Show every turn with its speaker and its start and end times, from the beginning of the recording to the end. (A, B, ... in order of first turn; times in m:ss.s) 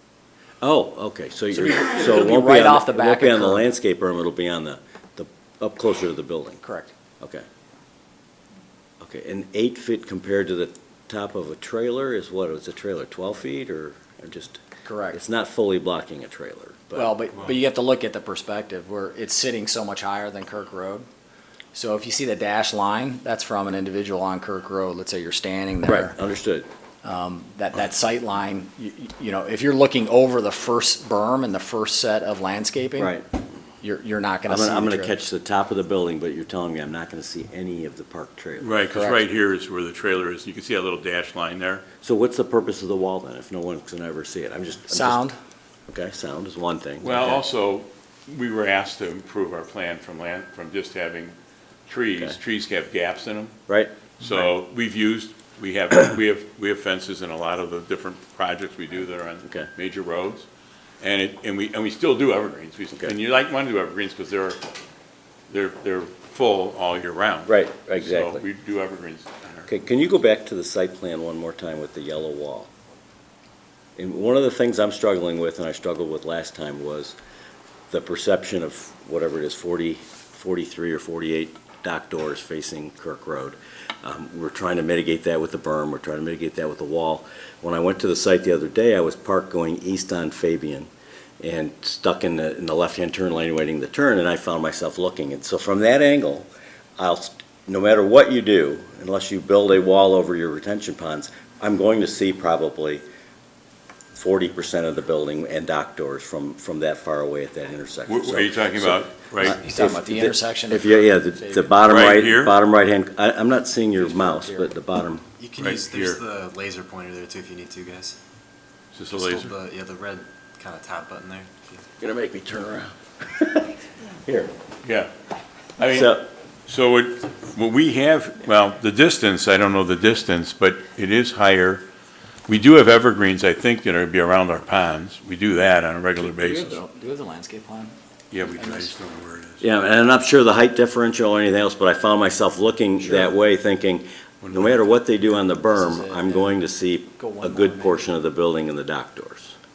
0:00.6-0:06.6 A
0:01.6-0:03.7 B
0:06.6-0:06.9 B
0:07.2-0:07.5 A
0:09.0-0:14.6 A
0:14.8-0:15.2 B
0:15.1-0:17.2 A
0:16.9-0:21.1 B
0:21.7-0:26.2 B
0:25.9-0:26.7 A
0:27.0-0:33.2 B
0:33.0-0:33.2 A
0:33.8-0:35.2 B
0:34.5-0:38.7 A
0:38.6-0:41.9 C
0:38.9-0:39.2 B
0:42.0-0:45.3 A
0:44.9-0:45.4 B
0:45.9-0:47.4 A
0:47.0-0:51.4 C
0:51.9-0:53.6 C
0:53.7-0:54.0 A
0:54.2-1:00.5 C
1:01.0-1:04.6 C
1:05.5-1:09.7 C
1:07.5-1:08.4 A
1:09.7-1:12.7 A
1:14.0-1:17.2 A
1:17.9-1:30.9 A
1:31.4-1:43.0 A
1:44.2-1:55.2 A
1:48.1-1:49.6 C
1:49.4-1:51.8 B
1:51.8-1:52.6 C
1:54.0-1:54.7 B
1:55.4-1:58.2 D
1:55.6-1:56.2 C
1:58.9-1:59.5 C
1:59.1-2:01.8 D
2:02.0-2:04.5 A
2:04.8-2:05.1 C
2:05.8-2:11.9 C
2:05.9-2:06.2 A
2:12.5-2:16.8 C
2:16.2-2:19.0 B
2:18.3-2:19.6 C
2:19.6-2:29.6 A
2:24.4-2:25.0 C
2:25.7-2:26.6 B
2:27.2-2:28.1 B